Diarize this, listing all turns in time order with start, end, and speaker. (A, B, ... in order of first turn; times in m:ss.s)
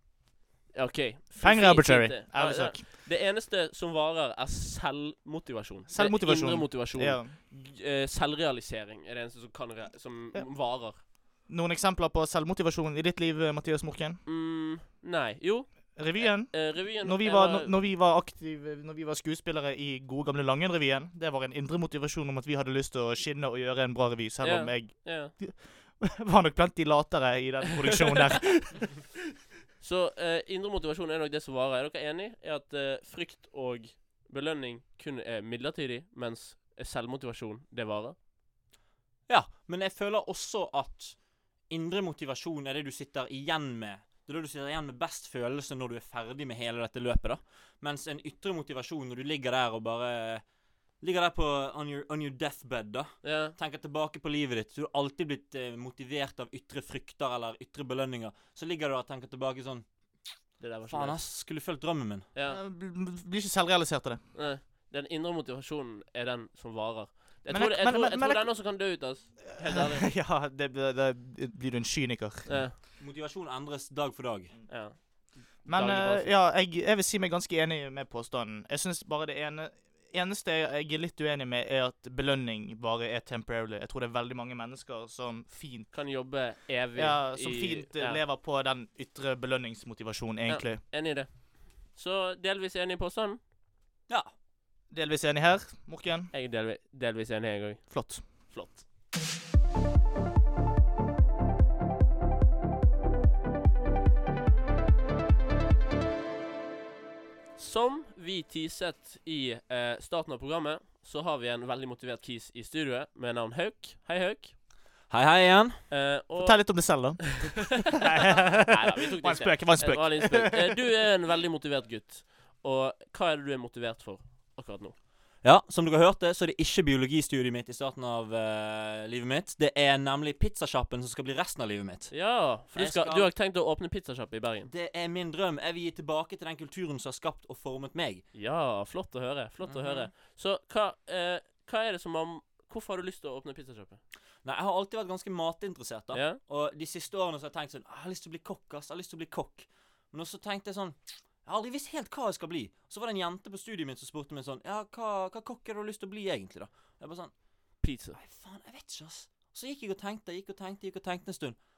0:00.7-0:11.0 A
0:01.4-0:02.8 B
0:05.9-0:07.4 B
0:11.5-0:14.2 B
0:14.2-0:17.8 A
0:16.0-0:29.1 B
0:24.4-0:25.3 A
0:29.8-0:38.2 A
0:39.3-0:50.4 C
0:51.0-1:00.3 C
0:53.2-0:53.6 A
1:00.6-1:01.2 A
1:00.9-1:02.3 C
1:02.4-1:02.6 A
1:02.4-1:04.2 B
1:04.3-1:10.1 A
1:07.5-1:08.6 B
1:09.5-1:12.6 B
1:12.5-1:12.8 A
1:13.0-1:14.6 C
1:14.7-1:16.3 A
1:15.6-1:25.9 B
1:25.9-1:28.2 A
1:26.9-1:30.8 B
1:30.5-1:33.4 A
1:34.9-1:36.3 B
1:36.3-1:38.8 A
1:37.9-1:38.3 B
1:47.6-1:54.6 A
1:55.1-1:55.8 C
1:55.9-1:57.6 A
1:56.4-2:00.8 B
1:58.6-2:05.0 A
2:05.4-2:13.3 C
2:12.1-2:14.7 A
2:14.7-2:18.2 C
2:18.3-2:24.0 A
2:19.6-2:20.1 C
2:24.4-2:41.6 C
2:26.1-2:26.4 A
2:37.8-2:38.2 A